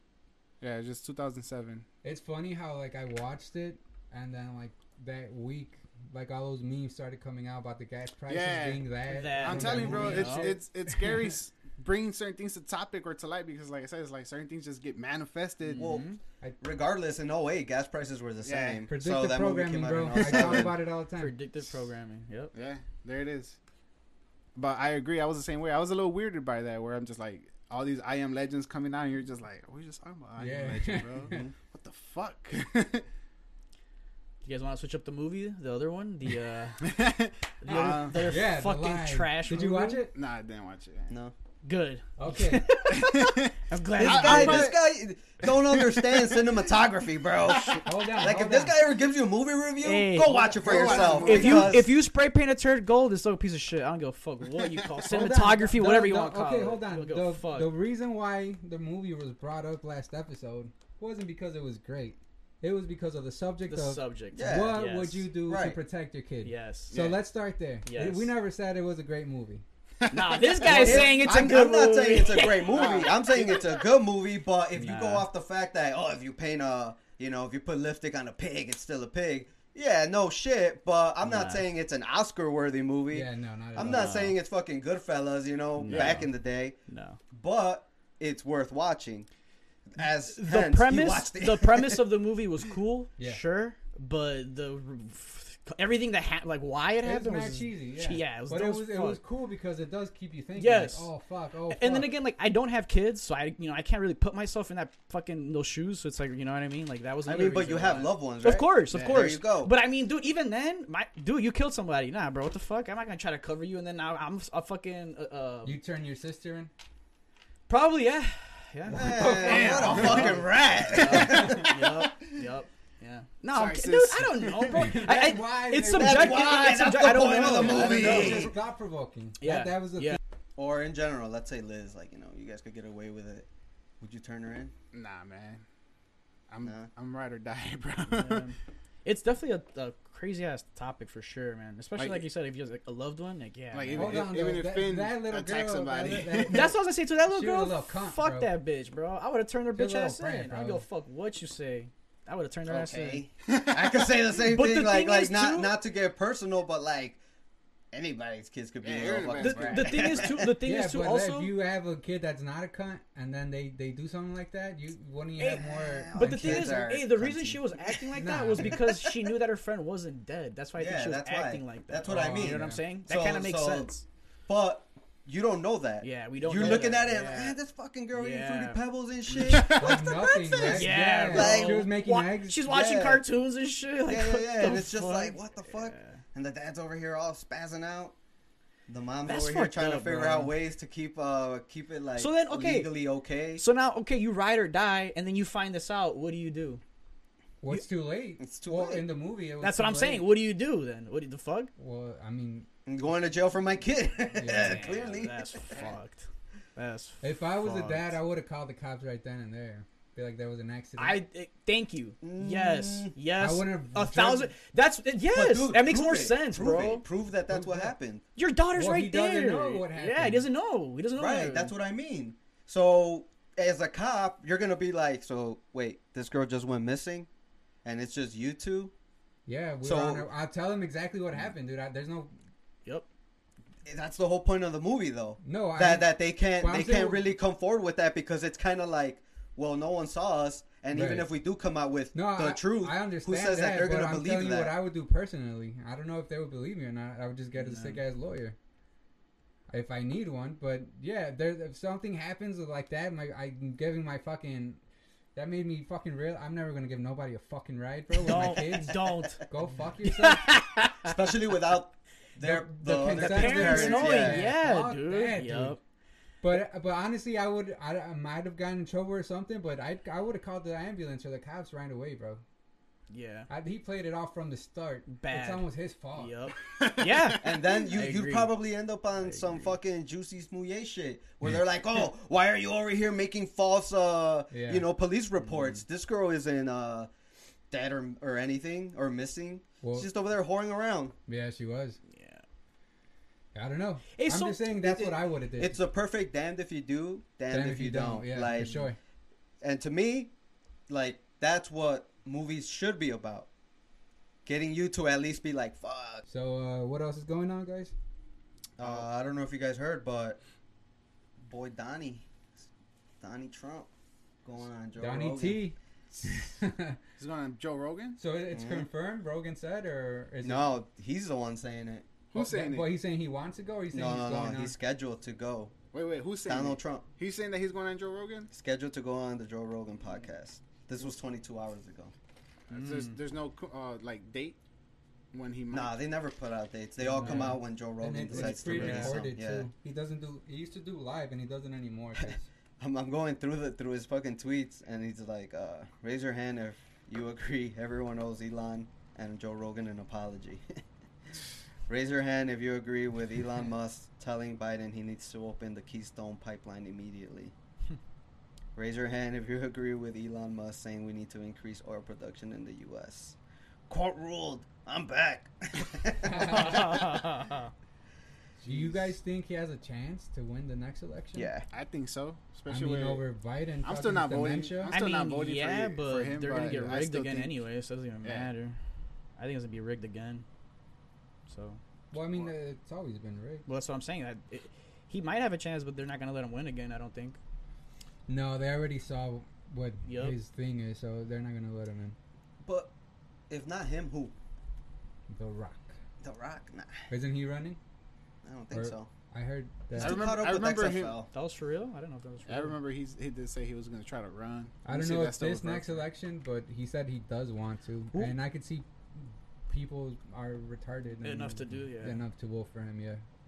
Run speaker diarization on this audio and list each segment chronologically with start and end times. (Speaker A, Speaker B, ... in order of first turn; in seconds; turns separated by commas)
Speaker A: 0.6-1.9, Speaker B: 2.0-10.6, Speaker A: 8.3-15.9, Speaker C: 9.1-11.0, Speaker C: 15.7-16.2, Speaker D: 15.7-16.1, Speaker D: 16.6-20.8, Speaker A: 18.4-18.8, Speaker B: 18.9-21.4, Speaker A: 20.2-20.7, Speaker C: 21.1-22.5, Speaker A: 22.5-23.6, Speaker A: 24.6-33.0, Speaker B: 30.4-31.4, Speaker D: 31.3-31.5, Speaker C: 34.4-36.9, Speaker A: 36.8-38.4, Speaker C: 37.6-40.0, Speaker B: 38.1-40.1, Speaker A: 40.1-41.1, Speaker D: 41.1-41.3, Speaker C: 41.6-44.7, Speaker B: 42.2-42.8, Speaker A: 42.9-44.9, Speaker D: 44.0-51.9, Speaker A: 45.4-46.5, Speaker A: 47.5-47.8, Speaker B: 47.8-48.8, Speaker C: 49.8-57.7, Speaker A: 50.6-51.9, Speaker B: 55.1-69.6, Speaker C: 63.7-65.3, Speaker D: 64.3-64.9, Speaker D: 65.5-65.8, Speaker C: 66.4-67.0, Speaker A: 66.9-67.2, Speaker C: 67.8-68.3, Speaker A: 70.0-71.3, Speaker C: 70.1-72.7, Speaker D: 70.6-86.8, Speaker A: 72.6-73.6, Speaker C: 74.8-75.3, Speaker C: 81.2-81.7, Speaker B: 83.1-84.3, Speaker C: 83.8-84.3, Speaker C: 85.8-86.3, Speaker A: 85.8-86.3, Speaker C: 86.9-87.2, Speaker D: 87.3-89.3, Speaker D: 89.9-92.0, Speaker C: 90.3-99.2, Speaker B: 97.0-102.1, Speaker C: 100.6-101.1, Speaker C: 101.7-115.8, Speaker D: 107.2-109.7, Speaker A: 108.9-109.2, Speaker B: 115.6-116.7, Speaker C: 117.7-128.5, Speaker D: 118.9-122.0, Speaker B: 119.2-120.0, Speaker A: 119.4-120.5, Speaker A: 123.5-124.8, Speaker B: 124.7-126.5, Speaker D: 125.9-128.6, Speaker B: 127.4-130.2, Speaker A: 127.5-128.5, Speaker C: 129.4-130.2, Speaker D: 130.6-133.5, Speaker D: 134.0-134.7, Speaker A: 134.9-135.6, Speaker A: 136.5-138.5, Speaker D: 136.6-136.9, Speaker C: 138.1-144.2, Speaker A: 142.0-142.3, Speaker A: 143.7-146.7, Speaker B: 143.9-148.5, Speaker C: 146.5-153.2, Speaker B: 149.7-150.8, Speaker D: 152.7-157.2, Speaker A: 153.5-154.2, Speaker C: 154.4-155.8, Speaker D: 157.9-160.5, Speaker A: 158.8-160.2, Speaker C: 159.3-161.5, Speaker B: 160.6-166.8, Speaker C: 165.4-174.0, Speaker D: 165.6-168.0, Speaker B: 168.2-168.8, Speaker D: 168.6-169.0, Speaker D: 170.8-180.0, Speaker B: 172.1-172.8, Speaker C: 176.0-177.6, Speaker C: 178.1-179.8, Speaker A: 179.5-180.1, Speaker B: 179.7-182.6, Speaker D: 180.5-181.9, Speaker C: 180.5-186.2, Speaker D: 182.6-183.2, Speaker D: 184.0-188.2, Speaker D: 188.9-193.6, Speaker C: 189.2-190.6, Speaker C: 192.2-192.9, Speaker C: 193.6-196.8, Speaker B: 197.6-200.2, Speaker D: 198.4-199.0, Speaker C: 199.6-201.7, Speaker B: 201.8-202.7, Speaker D: 202.8-205.9, Speaker B: 204.3-204.9, Speaker C: 204.4-208.2, Speaker B: 207.2-211.2, Speaker C: 211.0-217.0, Speaker D: 212.2-213.1, Speaker B: 213.4-214.5, Speaker D: 215.3-218.2, Speaker B: 217.5-217.9, Speaker C: 218.3-221.7, Speaker B: 218.7-220.5, Speaker D: 221.2-227.3, Speaker D: 227.8-228.9, Speaker B: 229.4-232.3, Speaker D: 229.8-230.3, Speaker D: 233.8-244.7, Speaker B: 235.4-237.2, Speaker B: 240.9-241.3, Speaker B: 242.1-248.6, Speaker C: 247.6-248.0, Speaker B: 249.7-254.8, Speaker B: 255.3-260.6, Speaker C: 258.2-259.4, Speaker D: 258.3-259.0, Speaker C: 260.0-261.1, Speaker D: 261.0-264.4, Speaker B: 262.4-265.8, Speaker C: 263.0-265.8, Speaker B: 266.4-272.4, Speaker C: 273.1-273.5, Speaker B: 273.5-276.3, Speaker C: 275.1-278.5, Speaker A: 276.7-277.6, Speaker D: 277.4-287.1, Speaker C: 279.2-279.7, Speaker B: 284.5-284.9, Speaker C: 285.4-285.8, Speaker D: 287.7-291.1, Speaker B: 289.8-290.1, Speaker B: 291.3-292.0, Speaker C: 292.1-292.4, Speaker B: 293.5-295.8, Speaker C: 294.1-294.6, Speaker D: 294.7-298.9, Speaker B: 297.5-299.0, Speaker D: 299.6-300.3, Speaker D: 300.9-303.5, Speaker D: 304.4-306.2, Speaker B: 306.3-307.9, Speaker D: 308.8-310.4, Speaker D: 311.4-312.3, Speaker D: 313.2-313.9, Speaker D: 314.4-315.6, Speaker B: 314.9-317.0, Speaker A: 317.2-318.2, Speaker B: 318.2-320.6, Speaker D: 318.5-318.9, Speaker D: 320.4-322.1, Speaker A: 322.3-323.0, Speaker B: 322.3-324.8, Speaker D: 323.9-325.7, Speaker A: 325.9-328.5, Speaker D: 326.4-327.1, Speaker D: 328.5-332.1, Speaker A: 332.7-334.6, Speaker C: 332.7-333.2, Speaker A: 335.3-336.0, Speaker D: 335.7-339.7, Speaker B: 337.0-342.4, Speaker C: 337.1-337.6, Speaker C: 338.4-339.2, Speaker D: 342.2-350.6, Speaker D: 351.9-357.5, Speaker D: 358.8-363.4, Speaker D: 363.9-367.3, Speaker B: 366.2-366.9, Speaker C: 366.5-367.7, Speaker B: 368.6-371.5, Speaker D: 371.3-371.6, Speaker A: 371.7-373.3, Speaker B: 372.7-374.9, Speaker A: 373.8-377.6, Speaker C: 374.9-378.8, Speaker A: 378.2-378.5, Speaker C: 379.4-380.4, Speaker C: 381.5-381.8, Speaker B: 382.1-383.6, Speaker C: 383.6-387.4, Speaker B: 388.3-392.1, Speaker C: 390.1-390.4, Speaker D: 392.6-392.9, Speaker D: 393.5-394.3, Speaker B: 395.3-396.0, Speaker D: 396.2-397.0, Speaker B: 397.1-397.8, Speaker D: 398.4-399.1, Speaker B: 398.7-400.3, Speaker D: 399.9-401.3, Speaker A: 399.9-401.2, Speaker C: 401.3-402.8, Speaker A: 402.5-406.1, Speaker B: 404.8-413.2, Speaker C: 411.2-412.2